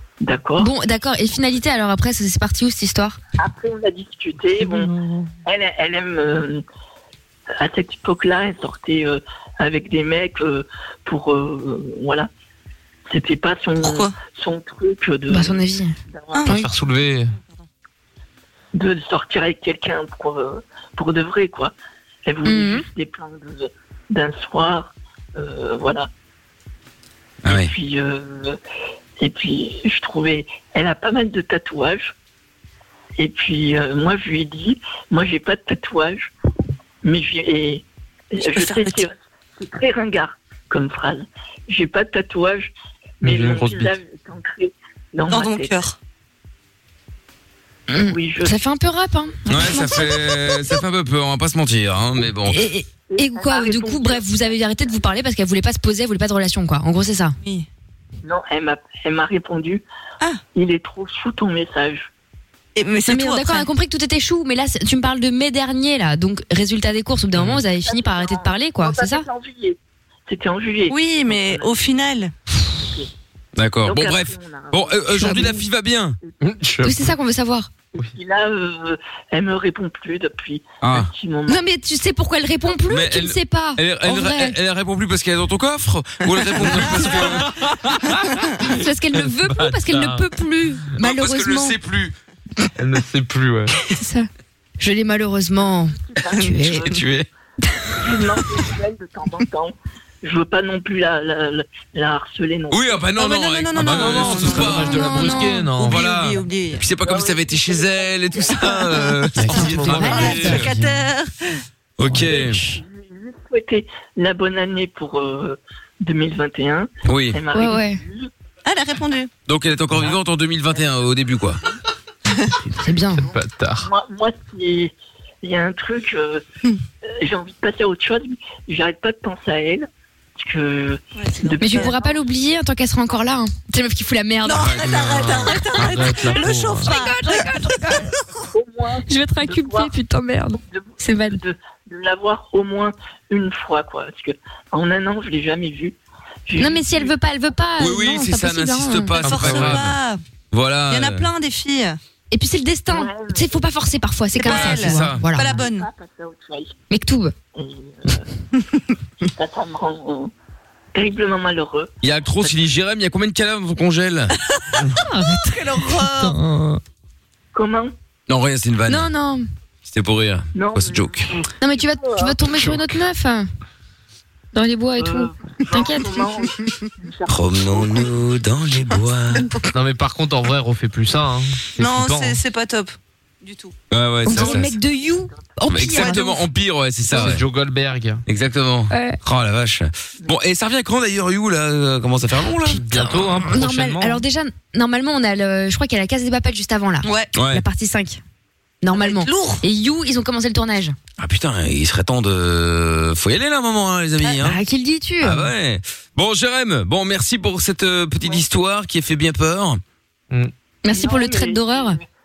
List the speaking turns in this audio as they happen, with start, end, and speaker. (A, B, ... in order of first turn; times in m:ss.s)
0:00.2-0:00.7 A
0:00.6-0:03.2 B
0:03.4-0:04.9 A
0:04.6-0:05.3 C
0:05.4-0:06.6 A
0:07.6-0:12.3 A
0:13.1-0:16.5 A
0:13.8-0:14.2 D
0:15.3-0:15.9 B
0:16.3-0:16.6 D
0:16.4-0:17.4 C
0:18.7-0:21.7 A
0:22.2-0:26.1 A
0:22.4-0:22.8 B
0:27.4-0:27.7 E
0:27.4-0:28.6 A
0:29.2-0:32.1 A
0:33.2-0:36.3 A
0:37.0-0:45.8 A
0:38.4-0:39.1 D
0:43.2-0:43.9 C
0:45.3-0:46.0 D
0:47.9-0:50.6 B
0:48.0-0:48.6 A
0:49.5-0:52.6 E
0:52.4-0:57.4 B
0:53.1-0:55.0 A
0:57.4-0:57.7 D
0:58.2-0:59.8 A
1:00.5-1:02.1 A
1:02.8-1:03.7 D
1:03.1-1:09.2 B
1:07.3-1:07.6 C
1:07.7-1:11.9 A
1:10.9-1:12.3 D
1:12.7-1:13.1 A
1:13.6-1:16.2 E
1:13.8-1:15.6 A
1:15.2-1:15.5 B
1:16.2-1:16.5 A
1:16.4-1:17.1 C
1:16.8-1:17.7 B
1:17.9-1:21.6 A
1:20.8-1:21.1 E
1:21.5-1:24.6 B
1:22.9-1:27.5 E
1:26.6-1:28.7 C
1:28.6-1:31.8 B
1:29.2-1:30.2 C
1:31.0-1:32.1 E
1:32.8-1:33.8 C
1:33.9-1:34.3 B
1:34.8-1:36.9 B
1:35.7-1:37.0 A
1:36.8-1:37.3 E
1:38.0-1:43.0 A
1:42.7-1:50.7 E
1:43.2-1:45.0 D
1:43.7-1:46.0 C
1:44.9-1:45.7 B
1:45.8-1:46.8 D
1:47.0-1:49.2 A
1:49.4-1:51.0 C
1:49.5-1:50.7 B
1:50.1-1:51.5 D
1:52.0-1:52.6 E
1:52.3-1:58.3 A
1:52.3-1:52.6 B
1:57.0-1:57.4 E
1:57.5-1:58.0 B
1:58.6-1:59.3 D
1:59.5-2:01.6 E
2:00.8-2:01.8 A
2:02.8-2:03.3 B
2:03.1-2:03.9 C
2:03.8-2:06.4 A
2:07.0-2:12.2 A
2:11.2-2:11.9 D
2:11.6-2:14.8 B
2:14.4-2:18.3 D
2:14.6-2:15.4 E
2:14.9-2:16.9 C
2:16.8-2:18.1 B
2:18.5-2:19.9 A
2:19.1-2:21.4 B
2:20.6-2:26.0 A
2:26.5-2:27.1 A
2:26.6-2:29.2 B
2:27.8-2:30.0 E
2:29.2-2:29.9 C
2:29.2-2:30.2 D
2:30.5-2:31.2 E
2:30.9-2:32.0 D
2:32.3-2:35.5 B
2:32.9-2:33.7 A
2:34.4-2:35.9 D
2:34.4-2:35.2 E
2:35.3-2:36.8 A
2:36.9-2:37.3 B
2:37.5-2:38.2 A
2:39.2-2:40.3 A
2:40.9-2:42.7 A
2:42.0-2:44.3 E
2:44.5-2:44.8 D
2:44.9-2:46.7 B
2:45.4-2:46.4 D
2:47.5-2:47.9 A
2:48.3-2:49.1 E
2:48.9-2:49.4 B
2:49.8-2:51.3 E
2:50.5-2:52.4 A
2:51.6-2:53.5 B
2:54.5-2:56.2 B
2:55.0-2:58.1 A
2:57.3-2:59.5 E
2:59.7-3:02.4 C
3:01.8-3:03.7 D
3:03.9-3:04.8 E
3:04.2-3:06.4 B
3:05.7-3:07.4 E
3:07.0-3:08.2 C
3:08.3-3:12.8 E
3:08.9-3:09.2 B
3:12.7-3:18.2 B
3:12.7-3:14.2 C
3:17.0-3:17.3 D
3:17.3-3:17.6 E
3:18.8-3:21.0 B
3:18.9-3:19.6 D
3:21.2-3:24.6 E
3:24.4-3:25.5 B
3:25.2-3:29.8 E
3:30.8-3:32.0 B
3:30.9-3:32.1 A